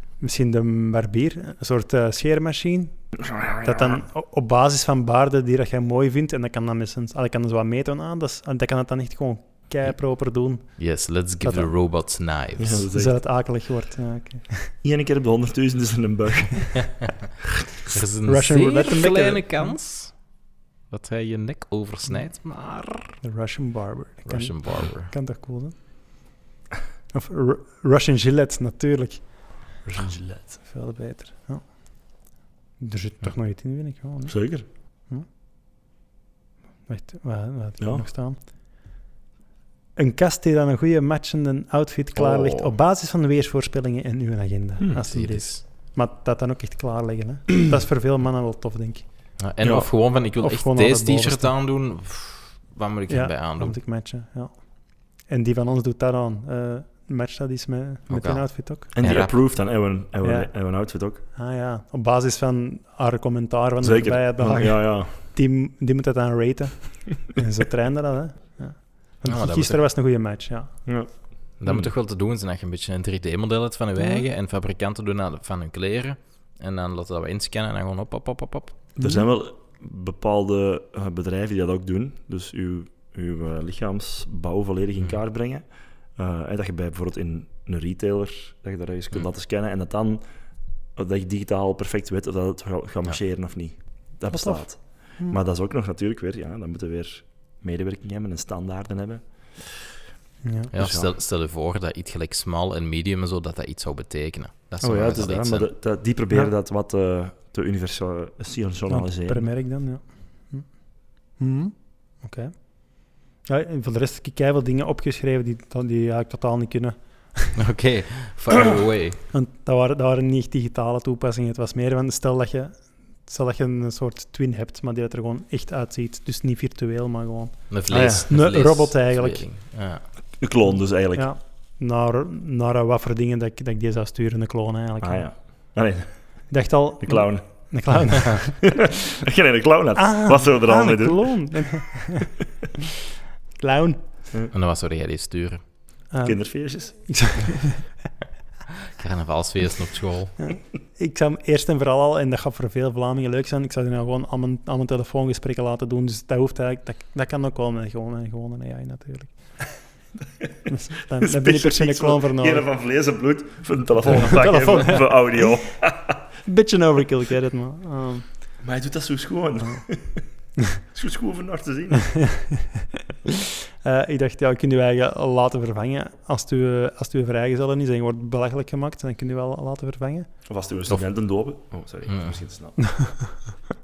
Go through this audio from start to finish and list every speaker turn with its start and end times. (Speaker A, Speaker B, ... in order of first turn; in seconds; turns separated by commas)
Speaker A: 0.2-3.1, Speaker B: 3.2-4.0, Speaker A: 3.6-11.7, Speaker C: 10.8-12.9, Speaker B: 12.6-13.2, Speaker A: 12.9-14.7, Speaker B: 14.8-17.0, Speaker C: 17.9-20.2, Speaker A: 18.3-19.7, Speaker C: 20.9-23.2, Speaker A: 23.2-25.8, Speaker C: 24.2-25.1, Speaker A: 27.1-29.5, Speaker B: 29.8-30.6, Speaker A: 30.7-34.4, Speaker B: 34.3-34.6, Speaker A: 36.9-38.4, Speaker B: 37.8-38.1, Speaker A: 40.0-49.1, Speaker C: 42.2-42.7, Speaker C: 45.0-45.6, Speaker C: 49.4-53.8, Speaker B: 49.6-49.9, Speaker A: 50.4-51.5, Speaker A: 53.1-58.9, Speaker C: 58.1-59.3, Speaker B: 58.9-61.2, Speaker A: 60.2-60.5, Speaker A: 61.3-70.7, Speaker B: 63.8-65.1, Speaker C: 69.3-69.8, Speaker B: 70.9-71.9, Speaker C: 71.6-78.8, Speaker A: 79.0-79.2, Speaker B: 79.0-90.2, Speaker B: 91.0-99.7, Speaker A: 94.3-95.4, Speaker A: 100.4-100.7, Speaker C: 100.7-105.7, Speaker B: 100.7-101.1, Speaker B: 104.8-109.5, Speaker A: 108.9-117.5, Speaker C: 117.6-119.2, Speaker A: 119.3-127.7, Speaker C: 127.7-130.1, Speaker B: 127.9-128.3, Speaker A: 128.3-129.4, Speaker B: 130.4-131.3, Speaker A: 131.1-135.6, Speaker B: 135.0-141.4, Speaker A: 136.5-138.7, Speaker A: 140.0-142.3, Speaker A: 143.6-144.0, Speaker C: 144.5-145.6, Speaker A: 146.1-147.8, Speaker B: 146.2-147.4, Speaker C: 149.0-150.4, Speaker A: 150.4-159.7, Speaker A: 160.7-162.7, Speaker B: 161.2-166.2, Speaker A: 164.1-165.5, Speaker A: 166.4-168.3, Speaker B: 168.6-170.2, Speaker B: 170.9-172.2, Speaker A: 172.2-172.8, Speaker A: 173.8-180.3, Speaker B: 180.5-182.9, Speaker C: 182.1-182.4, Speaker A: 182.9-183.4